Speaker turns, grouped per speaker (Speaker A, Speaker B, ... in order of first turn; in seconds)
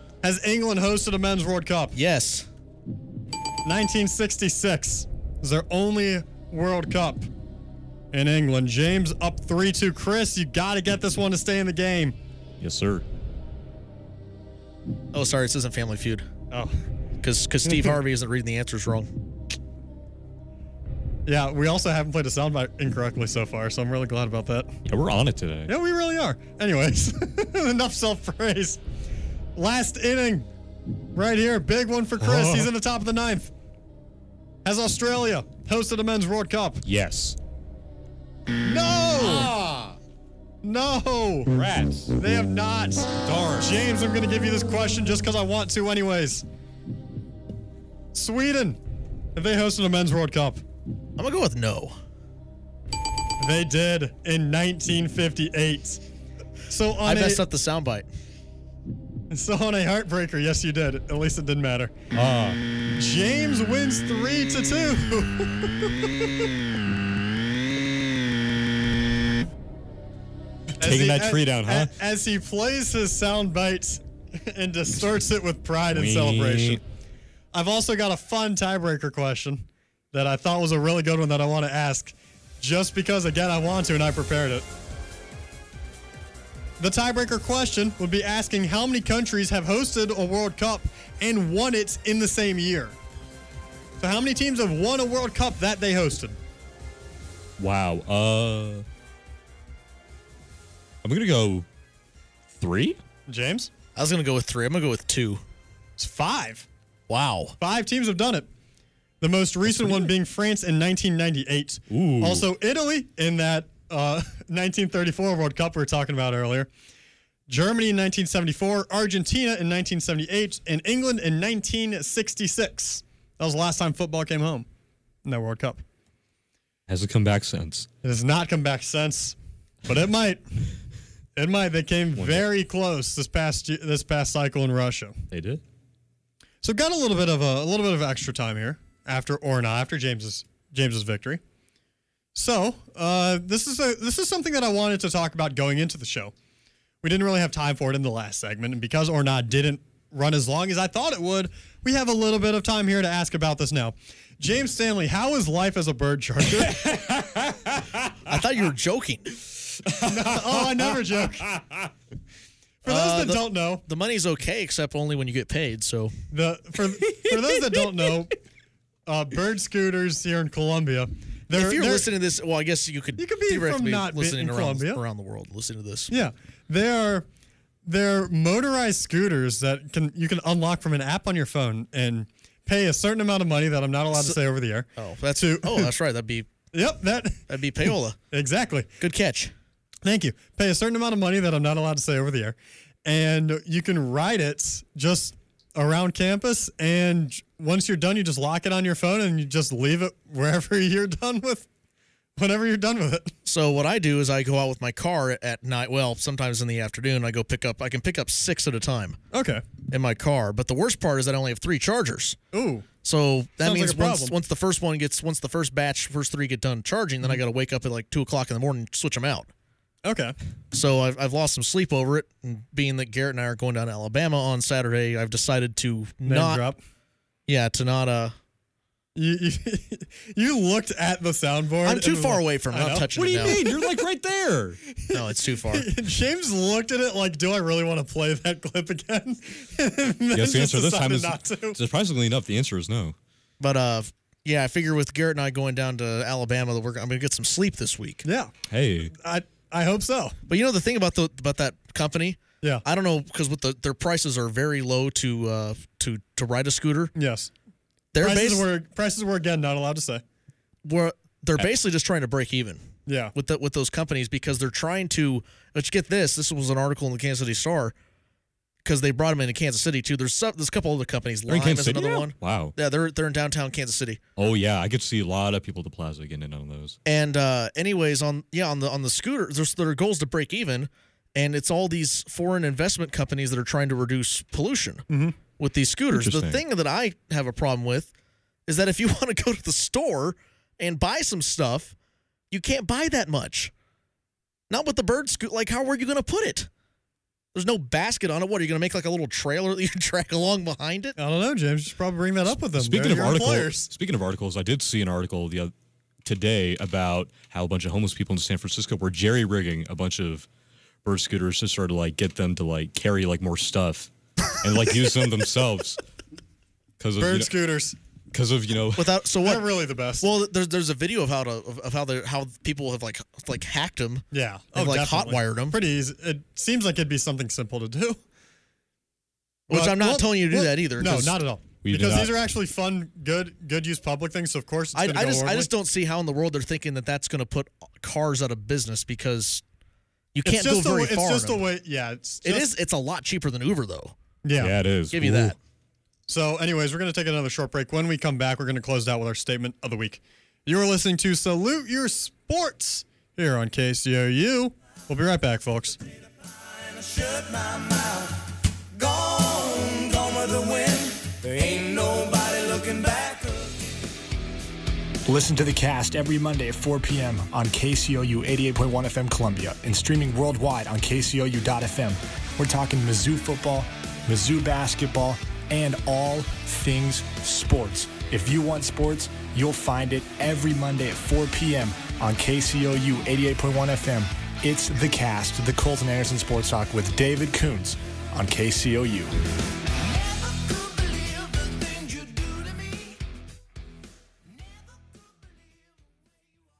Speaker A: 0.2-1.9, 3.6-7.3, 8.1-12.2, 17.7-17.9, 21.2-24.7, 25.7-28.8, 29.6-30.5, 31.1-33.5, 34.6-36.8, 38.6-39.5, 40.6-41.5, 42.1-46.5, 48.1-48.8, 49.3-50.6, 53.4-56.0, 56.7-57.4, 59.3-61.9, 62.9-66.5, 70.8-76.8, 77.5-84.7, 86.8-93.0, 94.0-96.4, 103.3-103.7, 106.0-106.7, 107.6-108.5, 109.2-116.7, 117.5-124.7, 125.2-125.8, 128.0-130.4, 131.3-135.2, 136.6-141.4, 142.3-146.3, 147.0-156.9, 160.0-161.6, 162.8-163.8, 166.3-168.3, 169.1-172.1, 173.2-175.0, 176.1-177.3, 177.8-185.9, 186.7-187.4, 188.3-188.9, 190.0-201.7, 202.3-203.3, 209.3-209.6, 212.5-212.8, 213.6-214.4, 220.0-220.3, 226.2-226.8, 229.2-234.0, 234.9-241.8, 248.2-248.5, 249.1-250.3, 257.1-257.5, 258.2-260.2, 263.1-263.3, 285.1-285.4, 301.2-303.9, 317.2-317.9, 319.4-320.3, 324.3-328.2, 329.7-335.7, 340.4-342.7, 344.4-344.7, 346.3-356.0
Speaker B: 1.9-2.5, 15.1-16.2, 17.2-19.1, 51.2-52.0, 57.0-58.1, 104.0-105.4, 107.1-107.5, 158.2-159.3, 162.8-166.1, 171.5-176.1, 184.1-184.4, 185.0-186.5, 187.5-188.2, 189.0-189.5, 203.4-209.2, 209.9-212.4, 213.0-219.5, 220.7-226.6, 227.5-228.3, 231.8-233.6, 235.1-235.9, 243.6-248.2, 250.5-257.1, 258.1-258.7, 260.8-262.8, 263.3-267.9, 268.8-274.2, 277.1-285.0, 285.6-288.1, 288.7-291.9, 292.5-293.7, 294.7-296.7, 297.5-301.2, 319.0-319.7, 320.2-325.8, 329.7-331.4, 334.9-339.6, 340.3-341.6, 342.4-344.1, 345.1-345.6
Speaker C: 12.6-13.0, 24.9-25.7, 32.2-32.7, 36.8-37.4, 39.2-40.0, 41.5-42.1, 43.2-43.7, 62.1-62.6, 70.8-71.9, 75.9-76.8, 97.6-98.8, 101.0-101.7, 102.6-103.0, 109.7-110.1, 111.9-112.5, 126.9-127.9, 132.1-132.5, 135.3-135.6, 156.6-158.1, 159.8-161.7, 233.1-234.8, 240.3-243.1, 248.7-249.1, 271.5-272.7, 274.4-277.0, 286.1-286.6, 302.5-305.7, 306.2-310.5, 311.0-316.0, 317.0-317.5, 318.3-319.1, 331.8-332.3, 344.6-345.5
Speaker D: 356.7-358.4, 358.9-363.8, 390.2-393.1
Speaker E: 365.2-389.3